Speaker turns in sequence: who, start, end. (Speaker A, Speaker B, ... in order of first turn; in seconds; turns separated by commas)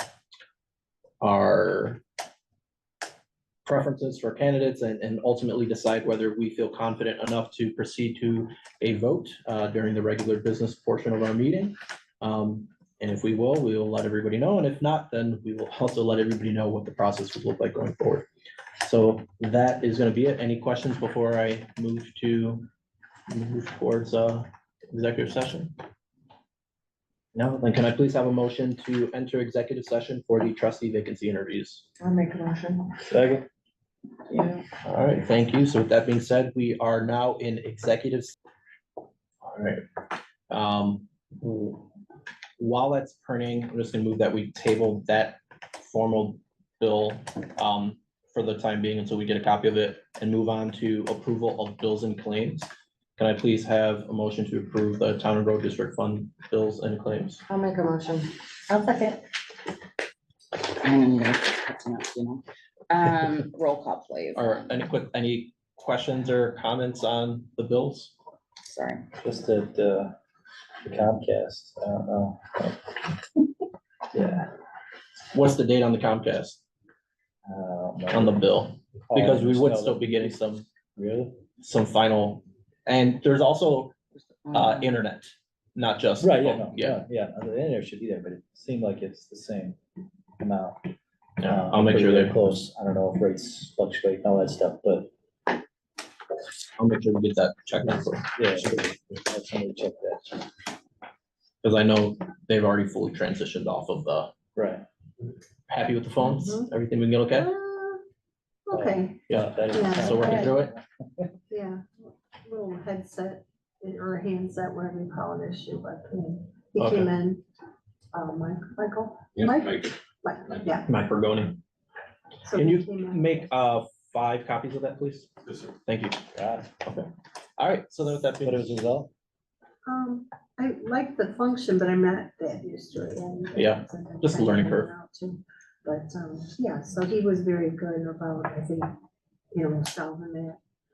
Speaker A: 1.2-2.0, Speaker A: 3.6-18.2, Speaker A: 18.8-22.6, Speaker A: 23.3-25.7, Speaker A: 27.3-31.9, Speaker B: 32.0-33.0, Speaker C: 33.0-33.5, Speaker B: 34.3-34.6, Speaker A: 34.8-38.3, Speaker A: 39.4-39.8, Speaker A: 40.5-41.9, Speaker A: 42.6-57.4, Speaker B: 57.5-59.3, Speaker D: 60.8-64.9, Speaker A: 64.3-68.1, Speaker D: 68.6-69.0, Speaker C: 69.2-70.1, Speaker C: 70.8-72.9, Speaker C: 74.1-74.5, Speaker A: 75.3-76.6, Speaker C: 77.4-78.5, Speaker A: 78.1-80.7, Speaker C: 79.1-80.4, Speaker C: 81.0-81.4, Speaker A: 81.6-83.9, Speaker D: 84.4-84.9, Speaker A: 84.5-87.0, Speaker C: 86.2-89.8, Speaker C: 90.4-90.9, Speaker A: 91.4-92.4, Speaker C: 91.4-95.1, Speaker A: 96.8-98.3, Speaker C: 98.3-100.5, Speaker A: 101.6-104.3, Speaker C: 104.5-104.8, Speaker A: 105.7-107.5, Speaker B: 106.2-106.7, Speaker B: 107.3-108.0, Speaker B: 108.7-110.6, Speaker C: 108.7-111.3, Speaker A: 109.3-110.7, Speaker B: 111.5-117.4, Speaker A: 116.8-117.1, Speaker B: 118.1-120.9, Speaker A: 119.3-119.9, Speaker A: 120.8-121.6, Speaker B: 122.4-123.5, Speaker A: 122.5-126.3, Speaker C: 126.3-126.7, Speaker A: 126.8-128.7, Speaker C: 128.4-129.1, Speaker B: 129.8-139.0, Speaker A: 133.6-134.9, Speaker B: 139.5-140.6